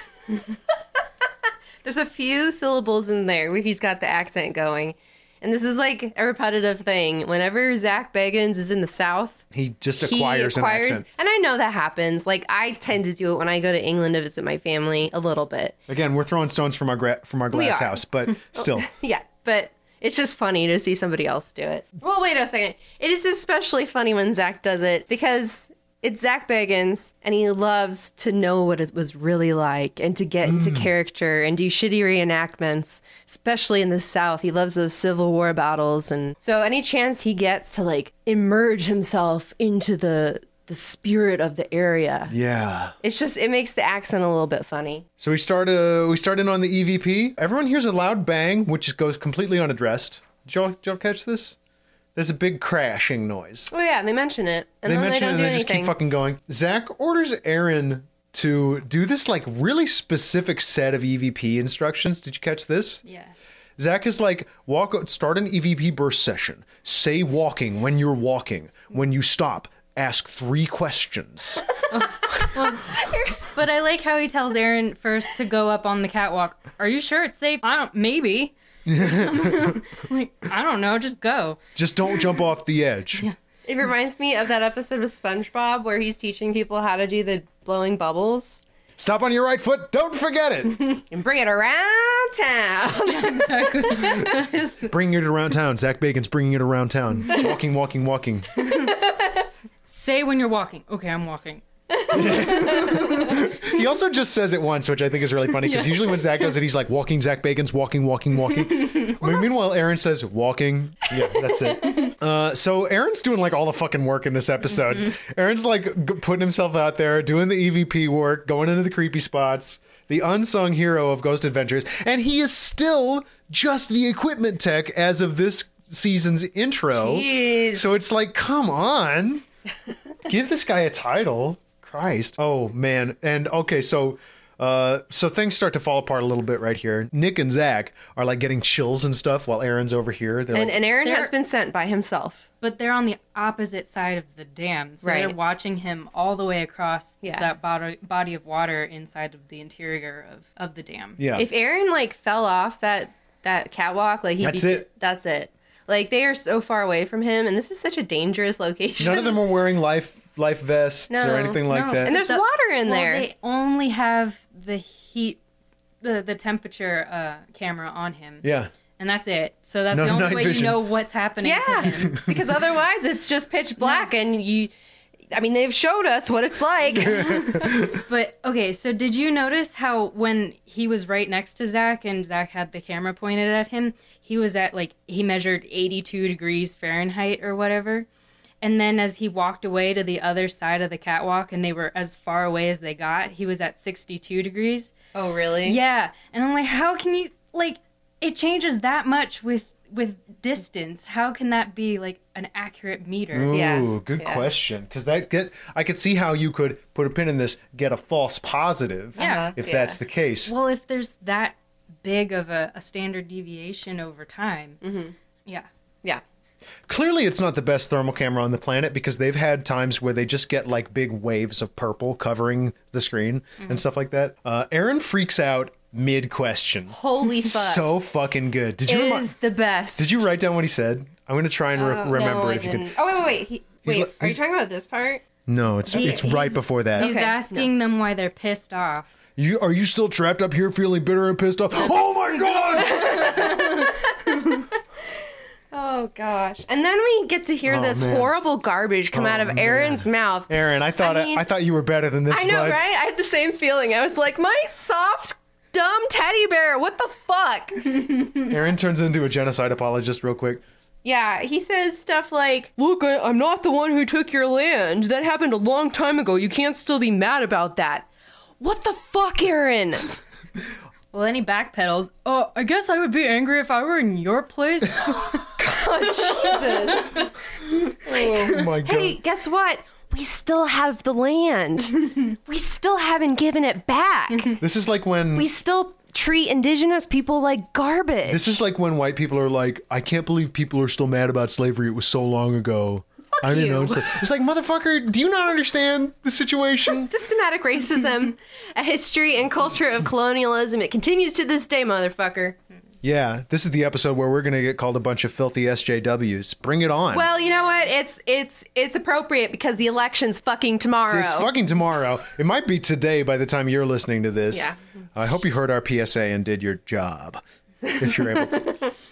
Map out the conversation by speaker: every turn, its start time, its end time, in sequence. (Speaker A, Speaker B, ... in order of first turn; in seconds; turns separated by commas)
Speaker A: 0.3-0.6, Speaker A: 1.8-9.4, Speaker B: 9.5-11.1, Speaker A: 10.0-15.8, Speaker B: 15.9-18.9, Speaker A: 17.5-18.0, Speaker A: 18.6-42.3, Speaker B: 30.4-30.9, Speaker B: 42.3-43.0, Speaker A: 43.0-45.1, Speaker B: 45.2-51.6, Speaker B: 52.1-53.7, Speaker A: 53.7-55.9, Speaker B: 54.9-63.0, Speaker C: 63.0-63.5, Speaker B: 63.8-71.7, Speaker A: 71.9-73.5, Speaker C: 71.9-82.3, Speaker B: 78.9-79.8, Speaker B: 81.8-83.3, Speaker A: 83.7-88.6, Speaker B: 89.0-91.0, Speaker A: 91.1-94.7, Speaker C: 93.1-94.7, Speaker B: 94.8-98.5, Speaker C: 98.7-99.0, Speaker A: 98.7-99.5, Speaker C: 99.9-101.6, Speaker A: 101.9-103.5, Speaker B: 102.1-129.5, Speaker A: 105.7-106.4, Speaker A: 111.5-112.1, Speaker A: 126.9-127.8, Speaker B: 130.2-140.8, Speaker A: 140.5-142.5, Speaker C: 141.0-141.3, Speaker C: 142.6-151.2, Speaker A: 145.0-145.4, Speaker B: 151.2-151.5, Speaker A: 151.4-159.4, Speaker B: 154.4-154.9, Speaker B: 159.0-162.2, Speaker A: 161.1-163.3, Speaker C: 161.7-165.4, Speaker C: 166.0-168.4, Speaker B: 168.4-168.7, Speaker C: 169.0-172.2, Speaker B: 169.9-170.8, Speaker A: 171.4-174.7, Speaker B: 171.9-172.4, Speaker C: 173.8-174.1, Speaker A: 175.3-177.6, Speaker B: 177.0-178.1, Speaker C: 177.0-188.1, Speaker C: 188.6-194.9, Speaker A: 195.1-195.8, Speaker C: 195.6-203.6, Speaker B: 203.3-210.5, Speaker A: 203.5-204.5, Speaker A: 209.2-210.0, Speaker C: 209.2-209.6, Speaker C: 210.5-214.8, Speaker A: 214.8-215.1, Speaker B: 216.9-229.3, Speaker A: 226.9-227.9, Speaker A: 228.9-230.2, Speaker B: 230.0-233.0, Speaker A: 231.8-235.2, Speaker B: 233.8-234.4, Speaker B: 235.5-237.1, Speaker C: 235.9-239.1, Speaker A: 237.0-237.7, Speaker B: 239.4-243.9, Speaker A: 242.7-244.8, Speaker A: 245.7-251.4, Speaker B: 247.7-248.3, Speaker B: 249.1-252.8, Speaker A: 252.3-258.5, Speaker B: 258.4-260.6, Speaker A: 261.0-268.1, Speaker A: 268.6-270.1, Speaker C: 271.1-277.2, Speaker A: 275.6-277.3, Speaker B: 278.0-279.2, Speaker A: 278.1-284.6, Speaker B: 284.6-285.5, Speaker A: 285.4-288.6, Speaker B: 288.3-297.1, Speaker A: 293.4-294.2, Speaker A: 296.9-302.6, Speaker B: 303.0-307.3, Speaker A: 307.1-311.5, Speaker B: 311.1-318.8, Speaker A: 314.5-315.4, Speaker A: 317.8-318.9